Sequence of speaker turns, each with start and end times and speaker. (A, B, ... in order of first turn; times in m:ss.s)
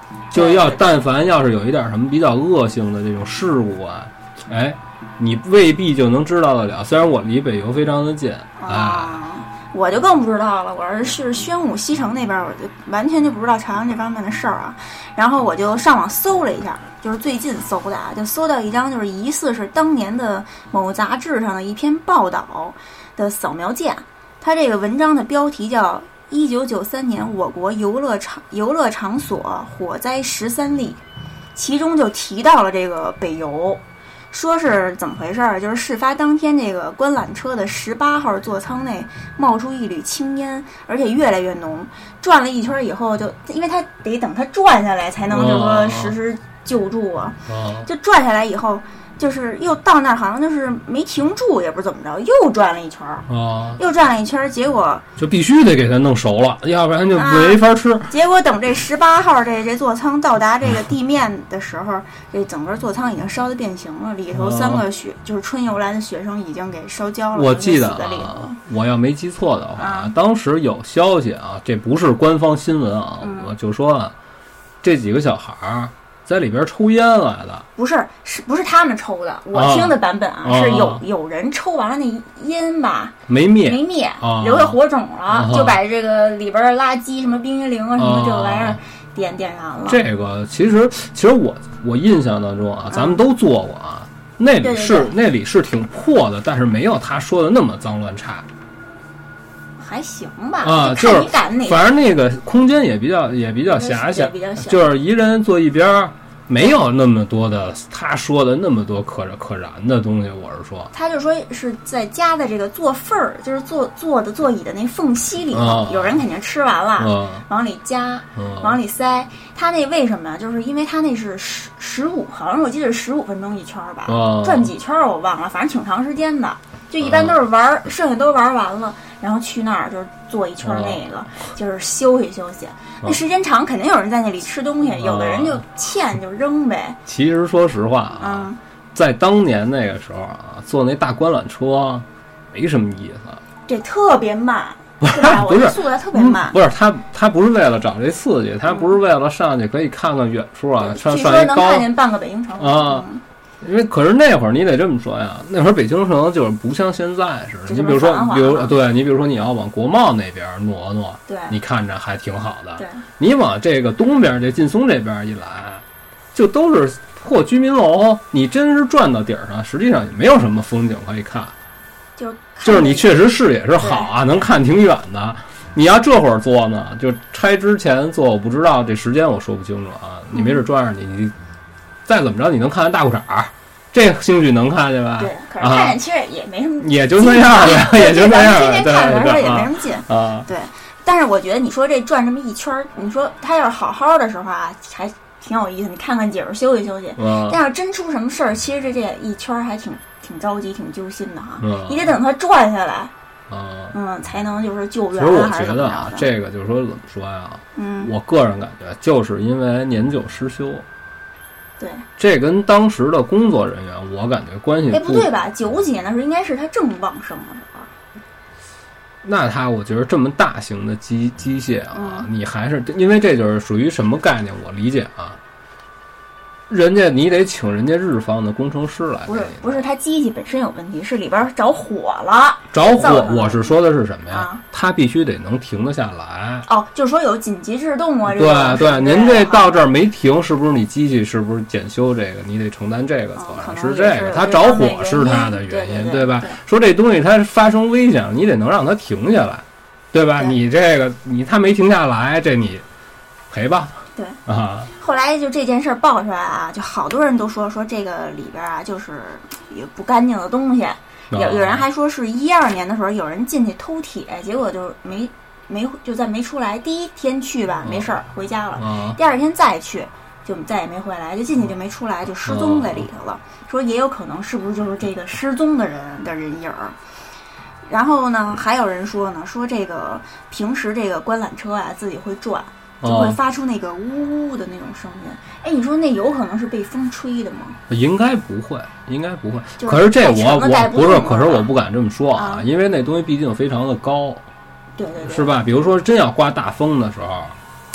0:00.3-0:09.2 A
0:00.3-0:01.0 B
0:08.6-0:31.0 B
0:31.5-0:55.0 B
0:45.3-0:46.2 A
0:47.5-0:47.9 A
0:53.3-0:53.8 A
0:55.2-0:58.1 A
0:57.1-1:08.6 B
1:04.3-1:04.8 A
1:07.3-1:14.1 A
1:09.8-1:10.1 B
1:13.2-1:13.5 B
1:14.8-1:17.6 A
1:17.8-1:30.0 B
1:19.5-1:21.0 A
1:23.3-1:24.8 A
1:25.3-1:25.8 A
1:28.0-1:28.8 A
1:29.9-1:38.5 A
1:32.9-1:33.2 B
1:34.6-1:35.2 B
1:39.8-1:41.8 B
1:40.6-1:50.9 A
1:43.7-1:44.9 B
1:50.9-2:17.0 B
1:55.5-1:56.2 A
1:57.0-1:57.4 A
1:58.4-1:58.8 A
2:04.1-2:04.7 A
2:07.0-2:07.4 A
2:10.6-2:11.0 A
2:15.0-2:15.6 A
2:17.1-2:23.4 A
2:18.2-2:18.6 B
2:23.7-2:26.6 B
2:25.0-2:31.9 A
2:28.7-2:28.9 B
2:30.8-2:33.2 B
2:32.6-2:33.0 A
2:33.6-2:51.5 A
2:37.7-2:38.7 B
2:41.3-2:41.6 B
2:42.8-2:43.0 B
2:52.2-2:53.1 B
2:52.6-3:01.3 A
2:53.8-2:54.1 B
3:00.3-3:00.6 B
3:02.0-3:06.0 A
3:05.2-3:23.1 B
3:06.8-3:10.5 A
3:17.2-3:17.6 A
3:21.6-3:22.1 A
3:23.5-3:23.9 A
3:23.9-3:26.3 B
3:25.1-3:30.8 A
3:27.7-3:28.1 B
3:31.8-3:32.0 B
3:32.2-3:35.3 A
3:34.9-3:37.9 B
3:39.2-3:45.4 A
3:41.9-3:42.3 B
3:46.7-3:49.9 A
3:49.3-3:53.8 B
3:52.7-3:56.6 A
3:54.3-3:54.6 B
3:56.6-3:59.8 B
3:58.2-4:12.8 A
4:03.4-4:06.6 B
4:13.5-4:14.9 A
4:15.0-4:37.0 B
4:21.3-4:21.8 A
4:27.8-4:28.1 A
4:28.8-4:29.2 A
4:32.4-4:33.0 A
4:37.8-4:47.8 B
4:43.0-4:43.4 A
4:47.9-4:54.4 A
4:49.8-4:51.7 B
4:52.3-4:52.6 B
4:55.0-4:55.5 B
4:55.2-4:57.5 A